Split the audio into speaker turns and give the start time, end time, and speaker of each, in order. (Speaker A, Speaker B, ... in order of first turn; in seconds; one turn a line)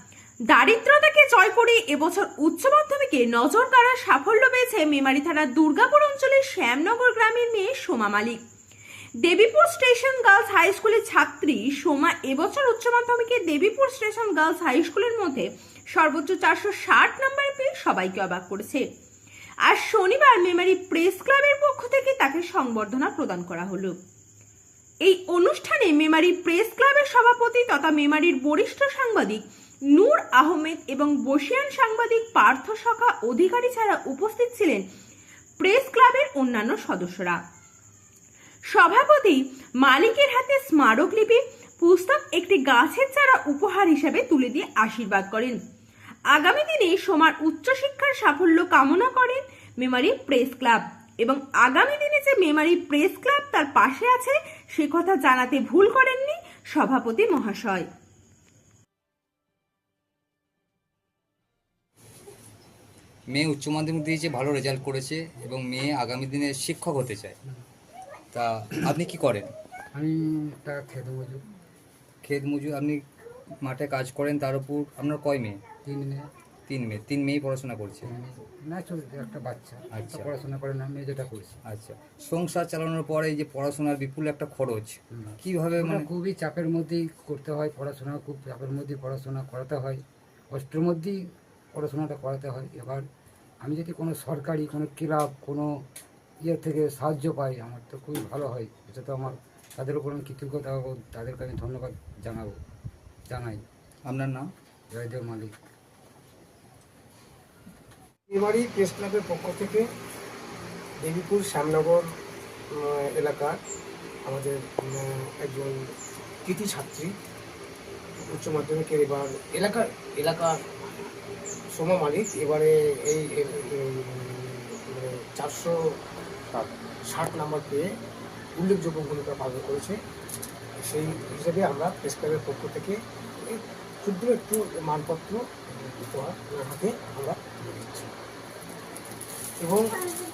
Speaker A: 0.5-8.4
Speaker A: 9.2-18.9
Speaker A: 19.6-23.9
Speaker A: 25.0-29.4
Speaker A: 29.9-34.8
Speaker A: 35.6-37.4
Speaker A: 38.7-45.6
Speaker A: 46.3-57.9
Speaker B: 63.3-67.4
Speaker B: 68.3-69.5
Speaker C: 70.0-71.4
Speaker B: 72.2-73.0
Speaker B: 73.6-75.6
Speaker C: 75.8-76.2
Speaker B: 76.7-78.1
Speaker C: 78.0-81.6
Speaker B: 79.9-80.3
Speaker B: 81.7-86.1
Speaker C: 85.1-90.0
Speaker C: 90.5-91.2
Speaker C: 91.7-93.0
Speaker C: 93.6-95.7
Speaker C: 96.4-102.5
Speaker C: 103.3-103.6
Speaker B: 104.0-104.5
Speaker C: 104.9-105.5
Speaker D: 108.3-109.9
Speaker D: 111.0-112.0
Speaker D: 112.7-113.5
Speaker D: 114.2-115.8
Speaker D: 116.4-117.1
Speaker D: 118.3-120.5
Speaker D: 121.7-125.7
Speaker D: 127.1-127.8
Speaker D: 128.5-129.9
Speaker D: 130.8-135.4
Speaker D: 136.1-137.4
Speaker D: 139.6-139.8